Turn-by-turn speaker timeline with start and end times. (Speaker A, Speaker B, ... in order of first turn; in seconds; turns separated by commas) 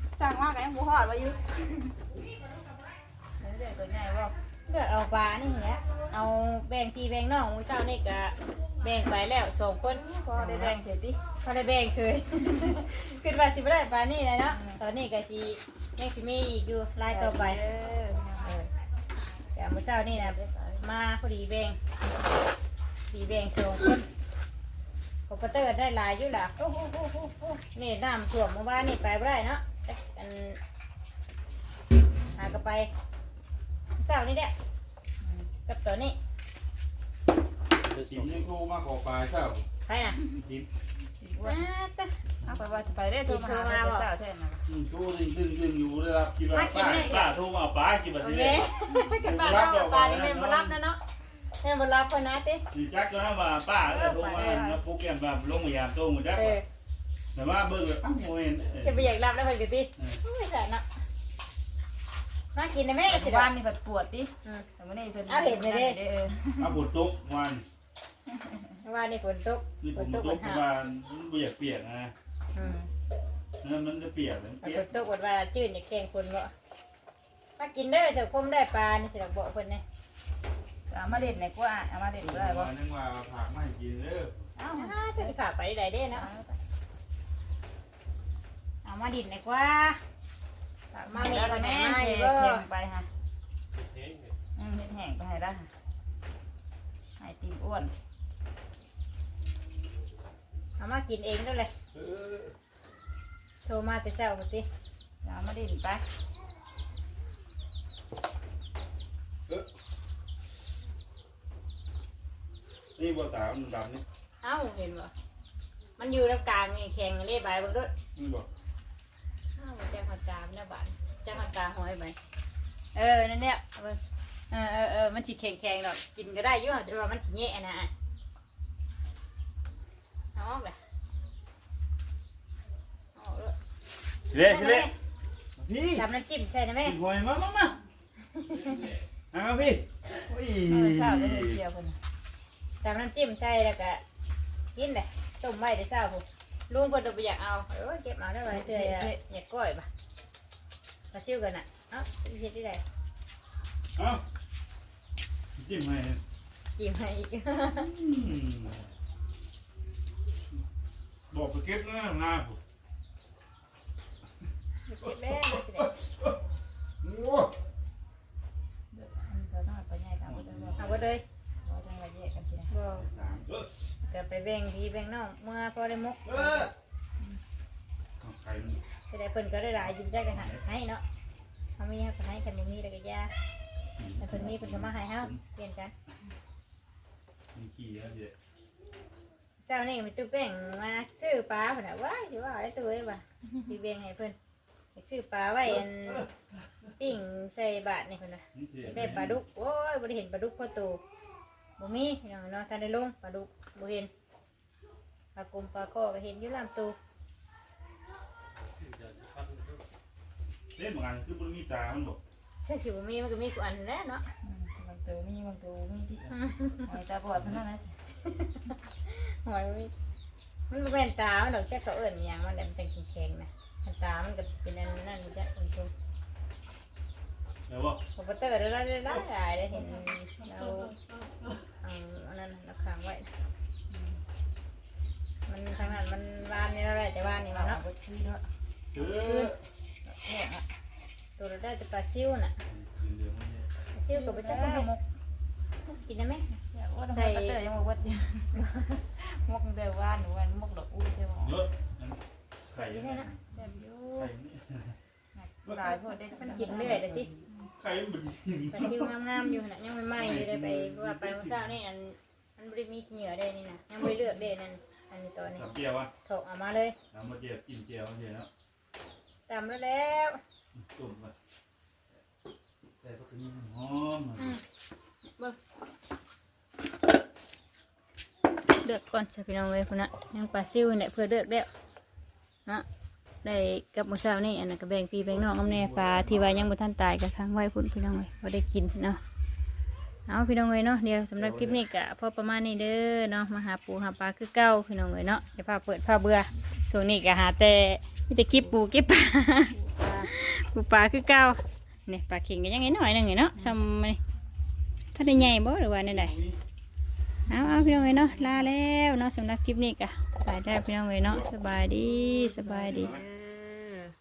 Speaker A: 0.1-1.9, Speaker A: 3.4-4.3, Speaker B: 4.7-10.8, Speaker A: 9.9-11.2, Speaker B: 11.4-17.6, Speaker A: 14.5-14.8, Speaker A: 17.1-18.7, Speaker B: 19.5-21.8, Speaker A: 20.1-20.8, Speaker B: 23.1-24.1, Speaker B: 25.3-30.6, Speaker B: 32.3-32.9, Speaker B: 34.0-34.5, Speaker A: 35.2-35.5, Speaker B: 35.6-36.2, Speaker C: 37.9-38.5, Speaker D: 38.1-39.6, Speaker B: 39.9-40.2, Speaker D: 40.3-40.7, Speaker A: 41.2-41.6, Speaker B: 41.4-42.1, Speaker A: 42.4-44.6, Speaker B: 43.2-44.1, Speaker D: 44.7-48.7, Speaker B: 46.5-47.3, Speaker B: 48.2-51.0, Speaker D: 49.2-50.8, Speaker B: 51.6-52.6, Speaker D: 52.7-56.6, Speaker A: 53.8-54.8, Speaker B: 54.3-54.6, Speaker B: 56.3-56.6, Speaker D: 57.3-59.0, Speaker B: 58.8-60.8, Speaker B: 62.5-63.5, Speaker A: 63.1-66.7, Speaker B: 65.3-66.0, Speaker D: 66.6-67.6, Speaker B: 68.8-70.6, Speaker D: 69.8-72.1, Speaker A: 72.6-72.9, Speaker D: 73.6-74.8, Speaker B: 74.6-76.5, Speaker B: 77.6-79.8, Speaker A: 80.9-82.7, Speaker D: 82.2-84.3, Speaker A: 84.6-85.3, Speaker B: 84.7-86.3, Speaker A: 86.1-86.6, Speaker B: 88.8-90.0, Speaker A: 90.9-93.1, Speaker B: 91.1-92.6, Speaker C: 93.7-94.3, Speaker A: 94.6-95.7, Speaker A: 97.2-97.9, Speaker B: 100.8-101.7, Speaker D: 101.9-102.5, Speaker B: 103.6-104.7, Speaker A: 105.2-106.0, Speaker D: 113.0-114.0, Speaker B: 114.4-115.1, Speaker B: 116.0-117.9, Speaker D: 118.2-118.5, Speaker B: 119.6-122.2, Speaker B: 122.9-124.0, Speaker B: 124.5-127.9, Speaker B: 130.3-130.7, Speaker B: 133.1-133.5, Speaker D: 134.3-134.9, Speaker B: 134.3-134.9, Speaker D: 135.6-136.0, Speaker B: 135.9-136.9, Speaker D: 136.8-137.8, Speaker B: 138.4-138.7, Speaker D: 139.3-139.9, Speaker A: 140.2-142.0, Speaker D: 140.6-141.6, Speaker B: 142.8-144.0, Speaker B: 144.7-149.9, Speaker A: 148.5-149.2, Speaker B: 151.1-152.8, Speaker D: 153.9-154.2, Speaker D: 155.6-156.2, Speaker B: 156.8-157.9, Speaker D: 157.8-158.8, Speaker D: 161.3-162.6, Speaker B: 164.9-165.9, Speaker D: 165.1-166.4, Speaker D: 167.0-167.5, Speaker A: 168.9-170.9, Speaker D: 170.3-171.0, Speaker B: 170.8-171.2, Speaker A: 171.6-172.7, Speaker B: 172.7-173.1, Speaker D: 172.9-173.7, Speaker B: 174.1-176.7, Speaker D: 176.3-176.7, Speaker D: 178.2-178.8, Speaker B: 179.1-181.0, Speaker B: 181.8-183.3, Speaker D: 183.9-185.4, Speaker B: 184.2-185.9, Speaker D: 187.5-188.3, Speaker B: 189.6-194.3, Speaker B: 194.9-196.3, Speaker B: 197.0-201.0, Speaker D: 198.5-199.4, Speaker B: 201.8-204.1, Speaker B: 205.3-206.9, Speaker C: 208.6-209.8, Speaker D: 210.7-212.2, Speaker B: 212.6-214.2, Speaker A: 214.4-216.3, Speaker B: 216.3-216.9, Speaker A: 216.8-218.0, Speaker B: 218.3-218.5, Speaker B: 219.1-219.9, Speaker B: 220.7-225.9, Speaker D: 227.7-228.0, Speaker B: 228.1-230.9, Speaker A: 230.0-230.8, Speaker B: 231.8-233.3, Speaker A: 233.9-234.2, Speaker B: 235.5-237.8, Speaker A: 237.4-238.4, Speaker D: 238.9-239.6, Speaker B: 239.0-239.5, Speaker A: 240.1-240.6, Speaker B: 241.4-242.5, Speaker D: 242.7-243.7, Speaker B: 243.9-244.9, Speaker A: 244.1-245.0, Speaker B: 245.9-246.4, Speaker A: 246.7-251.7, Speaker B: 247.1-247.6, Speaker D: 251.4-252.2, Speaker D: 252.7-253.6, Speaker B: 252.8-254.3, Speaker A: 253.6-253.8, Speaker D: 254.1-254.9, Speaker A: 255.3-257.5, Speaker B: 256.4-257.3, Speaker D: 257.6-259.1, Speaker B: 258.7-266.9, Speaker D: 260.1-261.7, Speaker D: 265.5-266.1, Speaker D: 267.1-268.5, Speaker B: 269.5-270.4, Speaker D: 270.8-271.3, Speaker D: 273.0-274.6, Speaker B: 278.8-281.7, Speaker B: 283.4-289.2, Speaker D: 285.6-286.7, Speaker B: 290.3-304.2, Speaker D: 291.4-291.8, Speaker A: 299.8-300.3, Speaker B: 305.1-306.4, Speaker D: 306.2-306.6, Speaker B: 307.5-313.1, Speaker A: 307.5-308.6, Speaker A: 312.1-314.1, Speaker D: 312.9-313.2